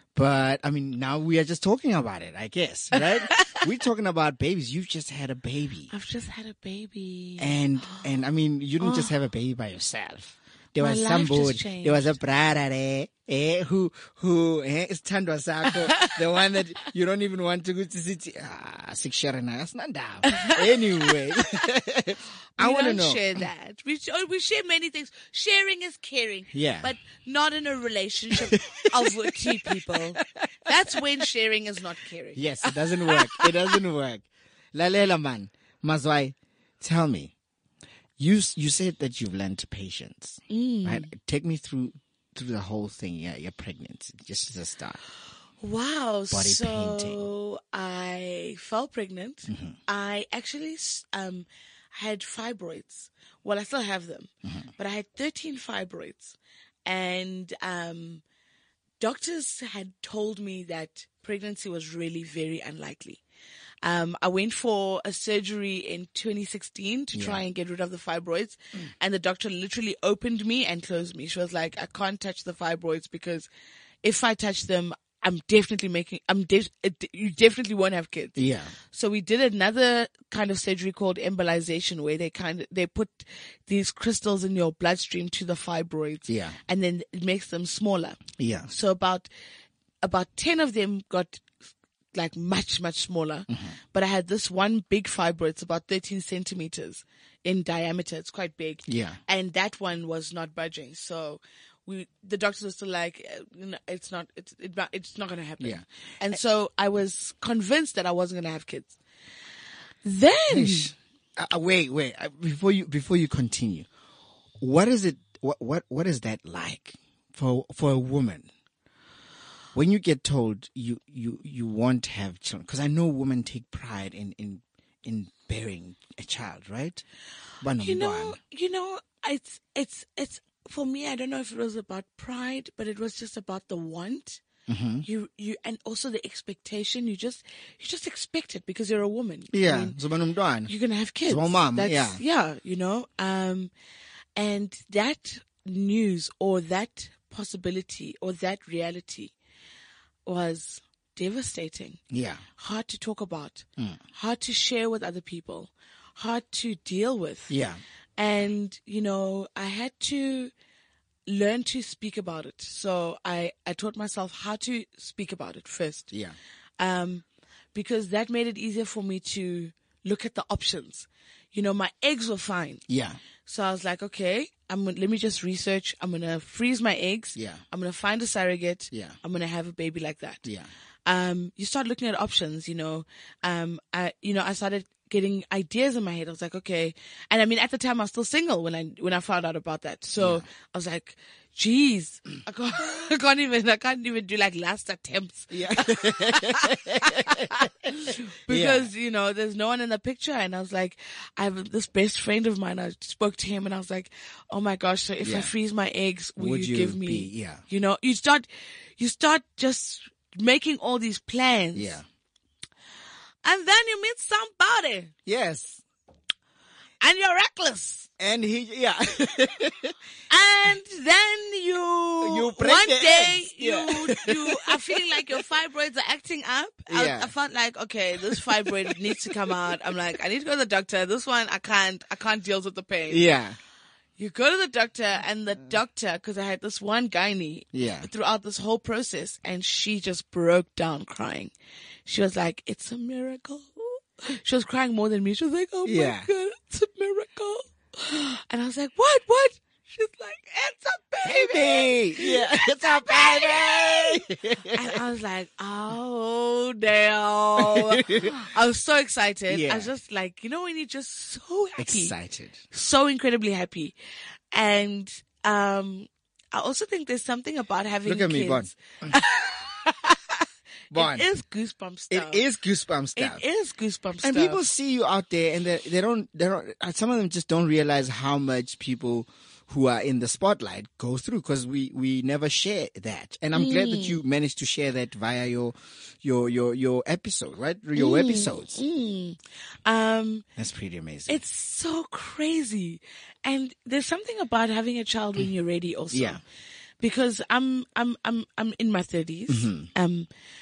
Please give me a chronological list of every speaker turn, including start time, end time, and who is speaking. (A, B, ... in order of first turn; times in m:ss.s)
0:00.1-0:05.9 A
0:02.9-0:03.6 B
0:05.9-0:08.0 B
0:07.4-0:23.4 A
0:08.8-0:09.1 B
0:10.8-0:12.2 B
0:15.9-0:16.2 B
0:20.2-0:21.4 B
0:22.6-0:33.8 B
0:26.5-0:26.9 A
0:28.3-0:30.2 A
0:32.3-0:37.3 A
0:38.2-0:45.0 A
0:40.5-0:41.1 B
0:45.6-0:58.2 B
0:46.3-0:47.2 A
0:49.5-0:49.8 A
0:59.0-1:03.2 B
1:03.8-1:13.5 B
1:07.1-1:07.4 A
1:14.0-1:18.4 B
1:18.4-1:18.7 A
1:18.9-1:29.3 B
1:26.3-1:26.6 A
1:28.4-1:28.7 A
1:30.0-1:31.5 B
1:32.1-1:49.0 B
1:33.5-1:33.7 A
1:38.9-1:39.2 A
1:45.6-1:46.3 A
1:50.0-1:50.9 B
1:50.5-1:53.9 A
1:54.6-1:58.5 A
1:59.7-2:07.0 A
2:07.6-2:08.4 A
2:07.8-2:14.4 B
2:14.7-2:15.0 A
2:15.0-2:20.0 B
2:19.5-2:20.7 A
2:20.7-2:23.7 B
2:21.2-2:22.2 A
2:24.4-2:29.3 B
2:30.2-2:32.0 B
2:32.1-2:32.4 A
2:32.6-2:37.5 B
2:37.5-2:37.8 A
2:38.2-2:40.5 B
2:41.3-2:46.1 B
2:46.1-2:46.4 A
2:46.8-2:52.8 B
2:52.9-2:53.2 A
2:53.4-3:00.5 B
2:57.4-2:57.6 A
2:58.9-2:59.2 A
3:01.0-3:32.0 B
3:10.2-3:10.5 A
3:15.5-3:18.9 A
3:25.2-3:25.5 A
3:26.4-3:27.6 A
3:31.7-3:32.0 A
3:33.4-3:35.1 B
3:35.2-3:35.8 A
3:37.0-3:38.1 B
3:38.2-3:39.9 A
3:40.3-3:53.3 B
3:42.2-3:45.4 A
3:46.9-3:47.3 A
3:48.2-3:49.9 A
3:53.1-3:53.6 A
3:54.2-4:01.5 B
3:57.7-3:58.1 A
4:02.0-4:22.1 B
4:05.8-4:06.3 A
4:11.2-4:15.0 A
4:17.6-4:18.4 A
4:19.5-4:19.9 A
4:21.8-4:22.6 A
4:22.7-4:23.9 B
4:24.5-4:32.4 B
4:28.0-4:29.2 A
4:30.9-4:31.3 A
4:32.1-4:33.4 A
4:33.2-4:34.6 B
4:34.2-4:48.8 A
4:43.5-4:44.2 B
4:48.0-4:50.4 B
4:50.6-4:51.4 A
4:51.3-4:56.4 B
4:56.1-4:56.4 A
4:57.0-5:00.3 B
4:59.5-4:59.9 A